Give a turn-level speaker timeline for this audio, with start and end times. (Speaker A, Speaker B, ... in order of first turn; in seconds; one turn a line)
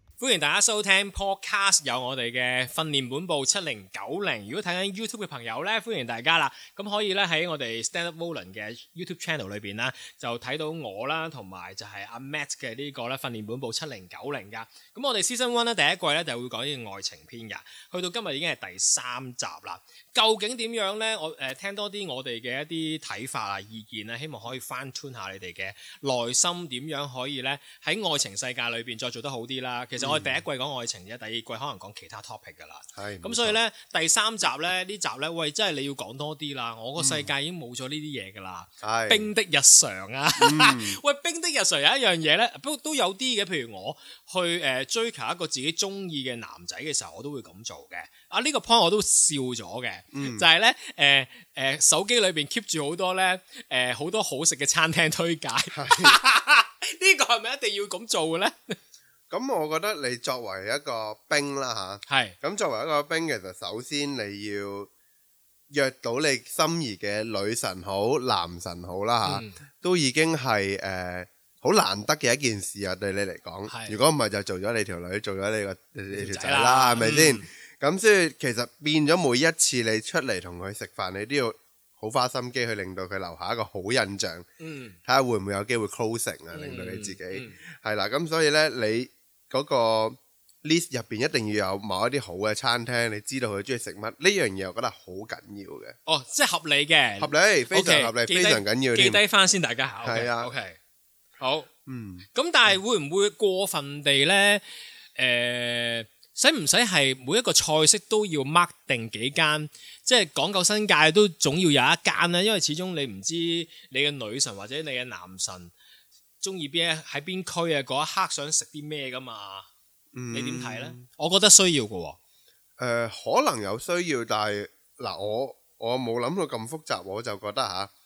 Speaker A: 0.2-58.8
Speaker B: 30.0-30.4
Speaker B: 33.0-33.6
Speaker B: 37.0-37.3
Speaker B: 38.8-39.3
Speaker B: 40.4-41.0
Speaker B: 50.1-50.5
Speaker B: 55.7-56.1
Speaker B: 59.3-64.9
Speaker A: 62.1-62.4
Speaker B: 65.7-84.5
Speaker A: 69.2-69.6
Speaker A: 73.7-74.0
Speaker A: 76.1-77.5
Speaker A: 84.6-85.0
Speaker B: 85.0-96.0
Speaker A: 86.5-87.6
Speaker A: 96.0-100.8
Speaker B: 97.2-99.2
Speaker B: 100.0-100.5
Speaker A: 101.4-101.7
Speaker B: 101.9-102.2
Speaker A: 102.3-115.7
Speaker A: 116.4-119.7
Speaker B: 120.1-121.0
Speaker A: 120.3-122.2
Speaker B: 122.8-127.9